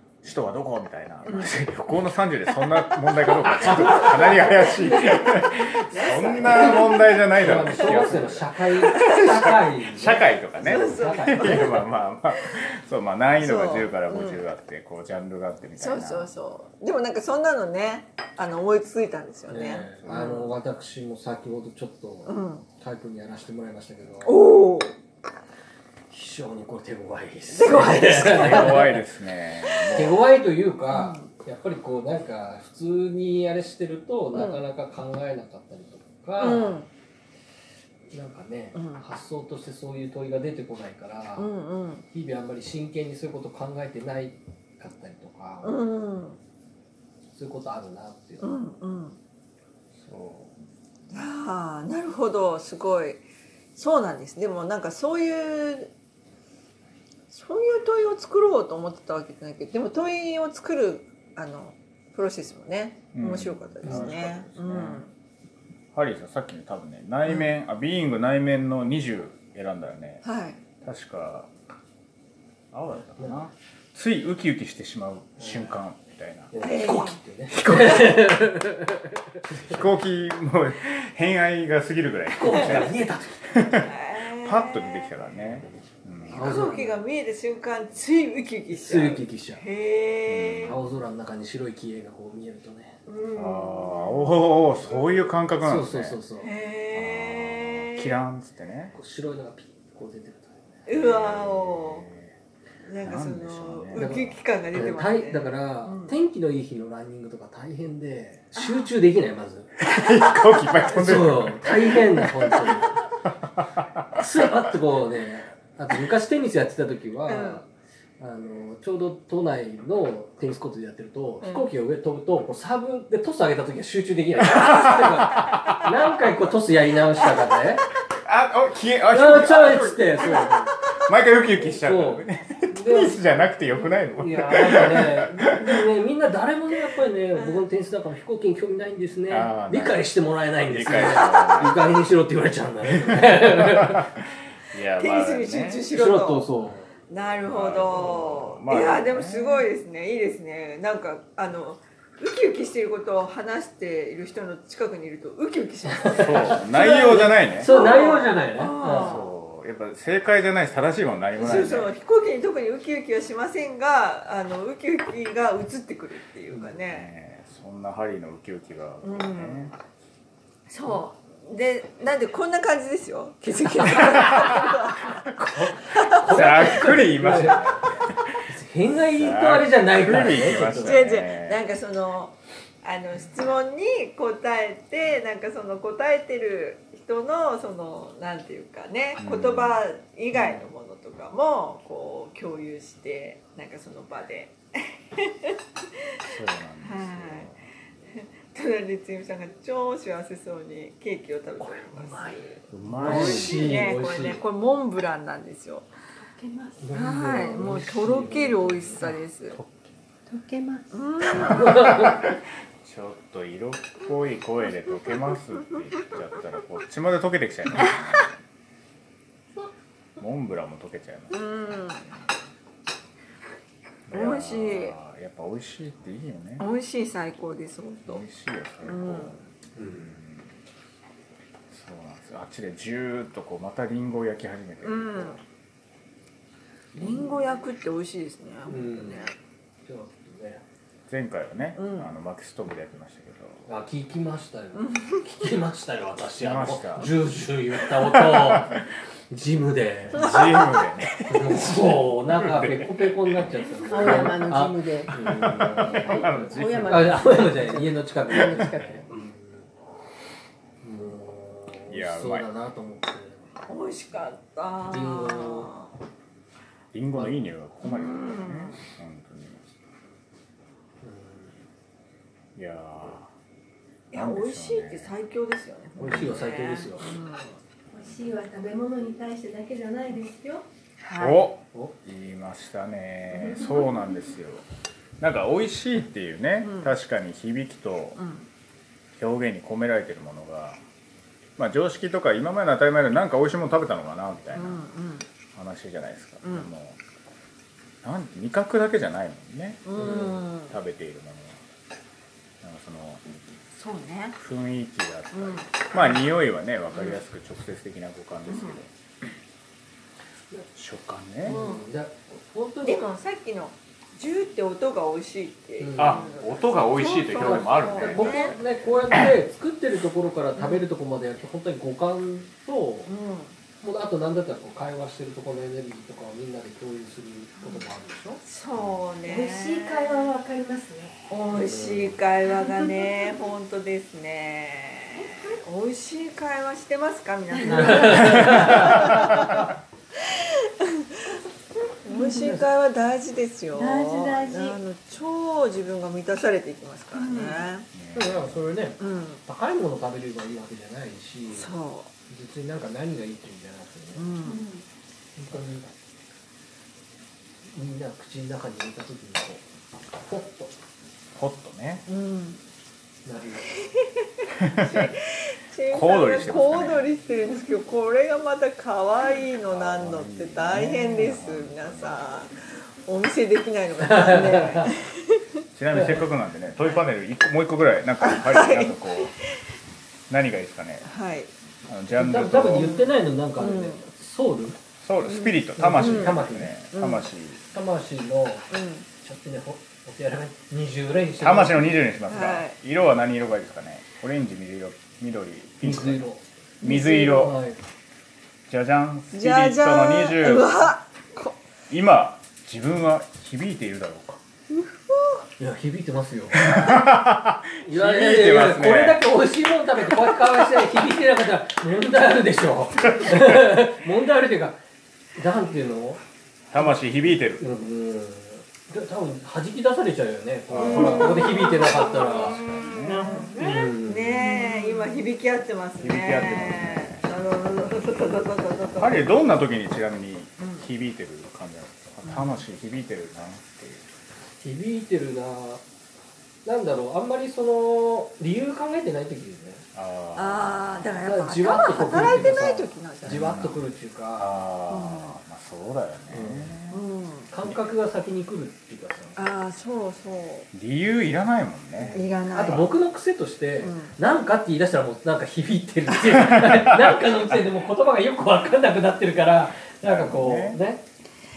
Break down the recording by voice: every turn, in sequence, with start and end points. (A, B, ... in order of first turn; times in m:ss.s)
0:00.2-0:16.3 A
0:01.3-0:01.5 B
0:03.7-0:04.6 C
0:04.0-0:05.3 B
0:05.9-0:06.9 B
0:06.4-0:11.7 C
0:07.8-0:09.6 B
0:10.6-0:11.9 B
0:13.4-0:14.4 B
0:15.8-0:20.5 B
0:19.5-0:24.4 C
0:19.9-0:20.3 A
0:22.3-0:22.6 B
0:24.2-0:25.0 B
0:26.1-0:29.0 C
0:27.5-0:28.9 B
0:28.0-0:30.3 A
0:29.9-0:36.9 C
0:30.9-0:31.3 B
0:34.3-0:34.6 B
0:36.4-0:36.9 B
0:38.1-0:41.5 C
0:38.8-0:39.0 B
0:41.4-0:42.0 B
0:42.1-0:45.9 C
0:45.6-0:46.4 B
0:47.3-0:48.5 C
0:48.4-0:49.2 B
0:50.0-0:50.5 A
0:51.1-0:55.9 B
0:57.3-1:05.1 B
1:03.2-1:05.0 A
1:03.8-1:04.2 C
1:05.9-1:10.2 A
1:10.2-1:10.6 B
1:10.8-1:11.5 A
1:12.7-1:16.5 A
1:13.1-1:13.5 C
1:15.4-1:15.8 C
1:16.5-1:19.8 C
1:16.6-1:17.2 B
1:17.5-1:18.5 A
1:19.5-1:26.7 A
1:22.3-1:23.6 C
1:23.8-1:25.1 B
1:26.3-1:27.0 C
1:26.3-1:30.8 B
1:28.7-1:29.6 C
1:30.3-1:30.8 A
1:30.6-1:33.0 C
1:33.1-1:34.4 B
1:33.3-1:36.2 A
1:35.6-1:36.5 C
1:36.4-1:38.2 B
1:36.9-1:39.0 A
1:38.9-1:40.9 C
1:40.9-1:42.1 B
1:40.9-1:42.3 A
1:42.8-1:46.1 B
1:43.0-1:44.2 A
1:43.9-1:49.8 C
1:48.6-1:48.9 B
1:49.8-1:54.2 A
1:50.9-1:53.0 C
1:51.8-1:52.7 B
1:54.1-1:57.7 C
1:57.3-1:57.6 B
1:58.2-2:07.9 C
2:01.4-2:01.7 B
2:04.6-2:05.8 A
2:08.2-2:15.5 A
2:09.1-2:10.7 C
2:11.6-2:24.1 C
2:17.3-2:17.6 B
2:19.3-2:20.0 A
2:20.7-2:21.8 A
2:22.8-2:25.8 A
2:25.0-2:26.5 B
2:25.9-2:26.9 C
2:27.1-2:39.3 B
2:27.5-2:29.7 A
2:35.9-2:39.2 C
2:36.2-2:37.8 A
2:38.9-2:41.9 A
2:41.4-2:47.1 B
2:46.5-2:46.8 C
2:46.9-2:49.8 A
2:49.0-2:49.6 B
2:50.7-2:56.9 B
2:54.2-2:54.7 A
2:55.2-2:57.8 C
2:56.2-2:58.4 A
2:58.4-3:01.0 C
2:59.1-3:01.6 A
3:00.5-3:14.6 B
3:09.2-3:09.8 A
3:10.3-3:10.7 C
3:15.2-3:15.5 B
3:16.2-3:17.6 A
3:16.8-3:17.6 B
3:18.1-3:25.9 B
3:21.6-3:24.4 C
3:22.7-3:23.8 A
3:26.2-3:26.8 D
3:26.8-3:29.1 C
3:26.9-3:29.6 B
3:29.5-3:30.0 A
3:30.3-3:30.9 D
3:30.9-3:32.1 B
3:31.4-3:38.3 A
3:31.6-3:32.2 C
3:40.2-3:41.4 A
3:41.3-3:42.1 B
3:44.1-3:46.7 A
3:44.1-3:45.0 B
3:46.6-3:48.2 B
3:48.1-3:49.4 A
3:48.8-3:49.4 B
3:49.8-3:50.2 C
3:50.0-3:50.5 A
3:51.7-3:55.4 A
3:54.8-3:55.4 B
3:57.0-3:57.4 C
3:57.0-3:59.4 B
3:58.7-3:59.3 C
3:59.8-4:00.6 C
4:01.1-4:03.6 A
4:01.8-4:02.1 B
4:03.7-4:10.3 C
4:04.8-4:05.5 B
4:06.4-4:07.1 A
4:07.9-4:08.8 A
4:10.1-4:13.4 A
4:10.1-4:10.8 B
4:11.3-4:19.7 C
4:13.9-4:19.0 D
4:13.9-4:14.4 B
4:15.1-4:17.4 A
4:18.3-4:19.0 A
4:20.8-4:23.6 C
4:21.9-4:22.4 A
4:23.6-4:25.9 B
4:24.9-4:25.7 C
4:26.9-4:29.6 A
4:27.1-4:27.4 C
4:27.8-4:28.8 B
4:31.0-4:31.6 C
4:32.6-4:33.3 A
4:34.1-4:37.6 B
4:34.1-4:35.1 A
4:36.0-4:37.2 C
4:36.0-4:36.4 A
4:37.9-4:40.6 D
4:41.0-4:41.5 B
4:41.2-4:44.7 A
4:45.2-4:48.2 A
4:46.6-4:47.0 B
4:48.2-4:48.5 B
4:49.1-4:50.8 A
4:51.6-4:54.9 A
4:54.5-4:55.3 B
4:55.6-4:57.0 A
4:56.4-4:56.7 B
4:58.0-5:01.6 A
4:59.8-5:00.8 B
5:00.0-5:00.4 C
5:02.6-5:03.2 A
5:03.7-5:04.4 B
5:04.4-5:08.9 A
5:05.3-5:06.2 B
5:06.9-5:07.2 B
5:08.5-5:08.8 B
5:10.5-5:11.6 A
5:11.4-5:13.1 C
5:11.5-5:11.9 B
5:12.8-5:18.6 B
5:15.8-5:16.3 C
5:16.0-5:18.6 A
5:17.3-5:23.1 C
5:20.6-5:20.9 B
5:23.1-5:23.6 B
5:23.8-5:28.4 C
5:27.6-5:27.9 B
5:28.4-5:30.3 B
5:29.2-5:31.2 D
5:31.3-5:39.7 B
5:31.6-5:32.2 C
5:32.5-5:33.1 D
5:37.7-5:38.9 C
5:39.0-5:39.6 D
5:40.3-5:41.4 B
5:42.0-5:47.9 B
5:42.1-5:42.5 D
5:42.3-5:42.6 C
5:43.7-5:44.8 D
5:47.2-5:47.6 D
5:47.9-5:48.7 A
5:48.2-5:51.7 C
5:49.0-5:49.4 B
5:51.5-5:52.1 B
5:52.3-5:54.3 C
5:54.2-5:54.6 B
5:54.4-5:54.9 D
5:55.4-5:56.0 C
5:57.7-5:59.6 C
6:00.2-6:00.7 C
6:01.4-6:02.1 A
6:02.1-6:02.6 B
6:03.2-6:03.7 C
6:03.8-6:15.4 B
6:04.6-6:05.2 A
6:05.9-6:07.1 A
6:09.7-6:12.5 A
6:14.2-6:14.9 C
6:15.8-6:19.4 A
6:15.9-6:16.2 C
6:18.2-6:19.3 B
6:20.3-6:21.1 A
6:21.0-6:21.5 B
6:21.9-6:23.0 A
6:22.1-6:24.8 C
6:22.7-6:24.0 B
6:25.0-6:27.6 A
6:25.2-6:27.3 B
6:25.8-6:26.8 C
6:27.7-6:31.9 C
6:28.7-6:29.1 B
6:31.4-6:36.3 A
6:32.3-6:32.8 B
6:35.8-6:37.8 C
6:36.8-6:37.6 A
6:38.7-6:40.8 A
6:39.3-6:41.6 B
6:41.9-6:44.4 A
6:45.1-6:45.4 B
6:45.6-6:47.0 C
6:46.5-6:49.2 A
6:47.8-6:54.8 C
6:53.0-6:53.8 A
6:55.4-6:56.2 C
6:56.7-6:57.7 A
6:57.6-7:02.6 C
7:00.7-7:01.6 A
7:01.2-7:02.2 B
7:02.1-7:03.4 A
7:03.0-7:09.3 B
7:03.1-7:03.9 D
7:03.5-7:04.5 C
7:04.4-7:05.2 D
7:06.0-7:07.3 A
7:09.0-7:14.1 A
7:12.2-7:12.6 B
7:14.6-7:15.8 C
7:16.6-7:19.9 C
7:20.0-7:21.0 A
7:20.4-7:23.6 B
7:21.2-7:24.6 C
7:23.2-7:27.0 A
7:24.9-7:25.4 B
7:26.3-7:26.8 C
7:26.9-7:27.5 B
7:27.5-7:29.4 C
7:29.4-7:30.7 B
7:30.7-7:32.9 A
7:32.0-7:41.0 C
7:32.1-7:32.9 B
7:33.8-7:34.2 B
7:36.4-7:37.6 A
7:39.8-7:40.8 A